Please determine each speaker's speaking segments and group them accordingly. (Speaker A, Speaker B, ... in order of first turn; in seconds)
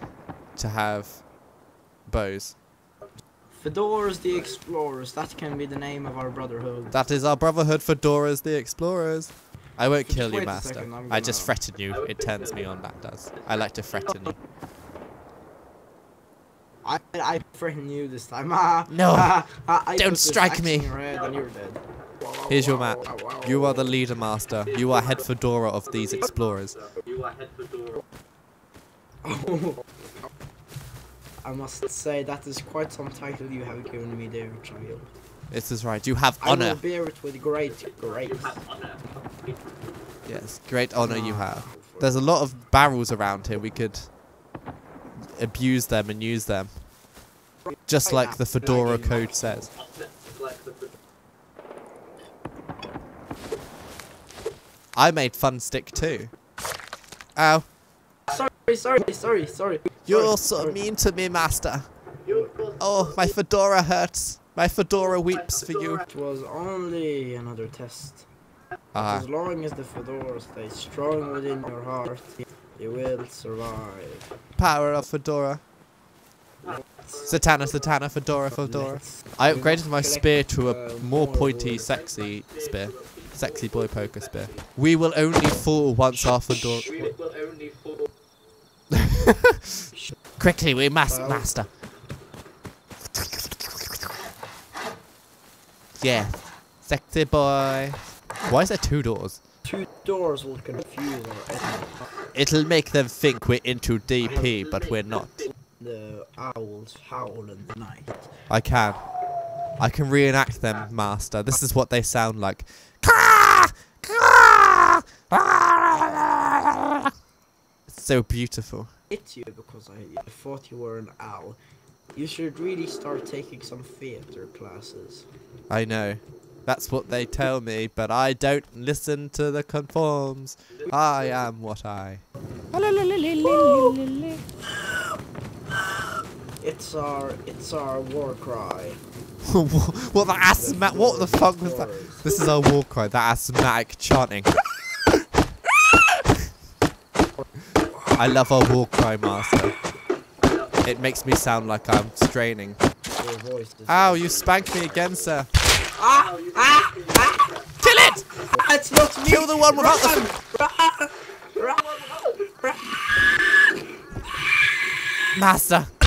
Speaker A: 0.6-1.3, 2.1-2.6, 6.9-14.4, 18.9-20.9, 22.5-26.8, 35.5-36.8, 40.2-44.1, 45.1-46.9, 47.9-49.7, 55.0-56.3, 57.4-57.7, 60.1-61.9, 62.8-66.1, 68.9-69.3, 74.6-75.6, 77.2-87.0, 88.9-89.8, 90.4-91.7, 96.0-99.4, 102.3-105.5, 108.5-109.0, 109.8-117.1, 117.9-118.9, 125.7-134.4, 139.4-145.1, 145.9-146.5, 148.2-149.7, 150.8-152.8, 153.9-155.5, 157.8-158.2, 159.2-160.3, 165.3-165.9
Speaker B: 3.6-7.0, 10.1-11.6, 16.8-23.9, 29.2-30.0, 31.4-35.1, 36.4-38.6, 41.0-42.1, 47.7-49.3, 58.3-60.8, 62.3-62.5, 66.1-68.3, 69.0-74.3, 78.5-81.9, 86.5-87.1, 91.1-91.5, 99.6-102.1, 105.8-108.3, 119.1-121.6, 122.1-125.3, 133.4-134.0, 134.8-135.1, 136.6-139.0, 140.6-142.3, 153.2-155.3, 156.0-157.5, 158.5-165.2
Speaker C: 11.9-13.7, 24.7-25.2, 25.9-28.0, 37.9-39.6, 49.7-50.9, 62.3-63.2, 65.5-66.0, 76.6-77.9, 81.9-84.7, 86.8-88.1, 150.4-150.8, 155.9-157.7, 161.6-162.3